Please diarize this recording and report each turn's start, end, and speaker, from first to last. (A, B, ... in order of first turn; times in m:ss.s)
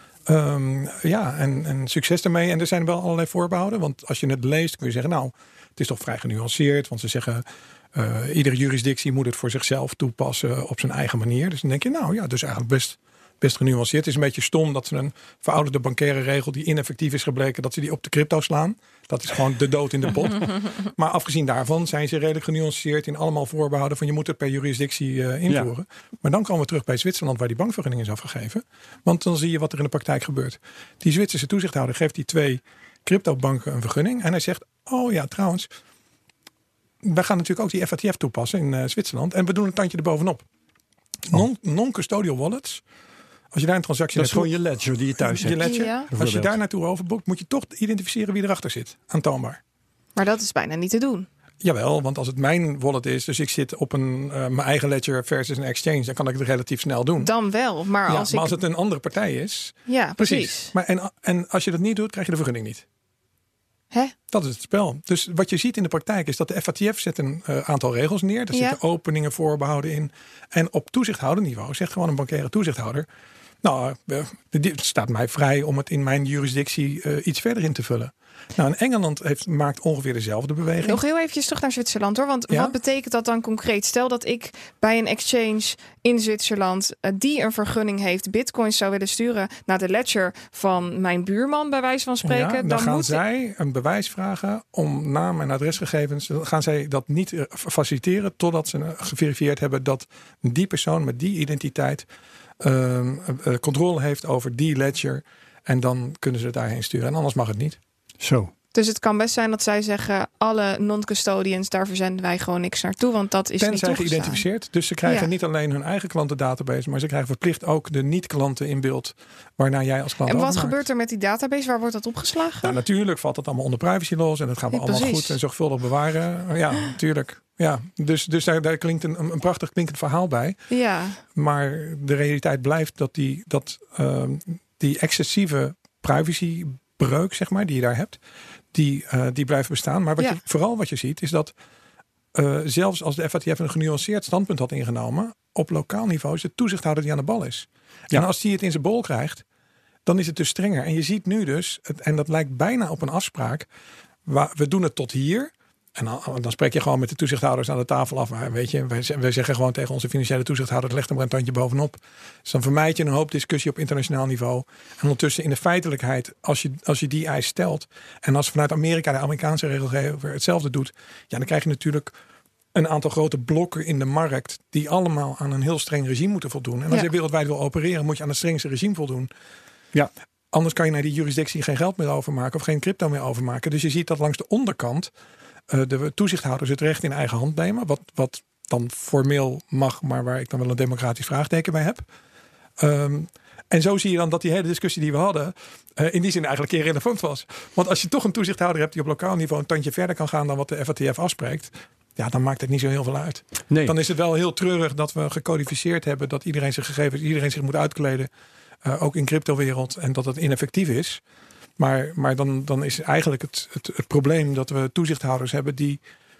0:00.3-0:35.7 A
0:37.0-0:40.4 A
0:41.3-0:42.8 A
0:43.5-0:44.6 A
0:44.1-0:46.6 B
0:45.2-0:49.6 A
0:45.6-0:46.1 C
0:50.2-0:51.3 C
0:51.6-0:57.3 A
0:57.2-0:58.6 C
0:58.1-1:02.9 A
0:59.9-1:00.7 C
1:04.3-1:13.1 A
1:08.5-1:08.8 C
1:13.6-1:21.0 A
1:20.8-1:33.2 C
1:22.5-1:22.8 A
1:32.2-1:42.1 A
1:42.6-1:47.8 A
1:48.2-1:48.5 B
1:48.7-1:54.4 C
1:53.6-2:00.8 A
2:00.3-2:02.8 C
2:02.6-2:10.6 A
2:04.7-2:05.4 C
2:10.7-2:11.2 C
2:11.3-2:18.2 A
2:18.7-2:21.5 A
2:22.3-2:29.4 A
2:30.1-2:33.7 A
2:34.3-2:52.1 A
2:52.7-2:59.3 A
3:00.5-3:05.1 A
3:05.7-3:12.0 A
3:12.8-3:28.3 A
3:28.8-3:31.2 A
3:31.8-3:36.0 A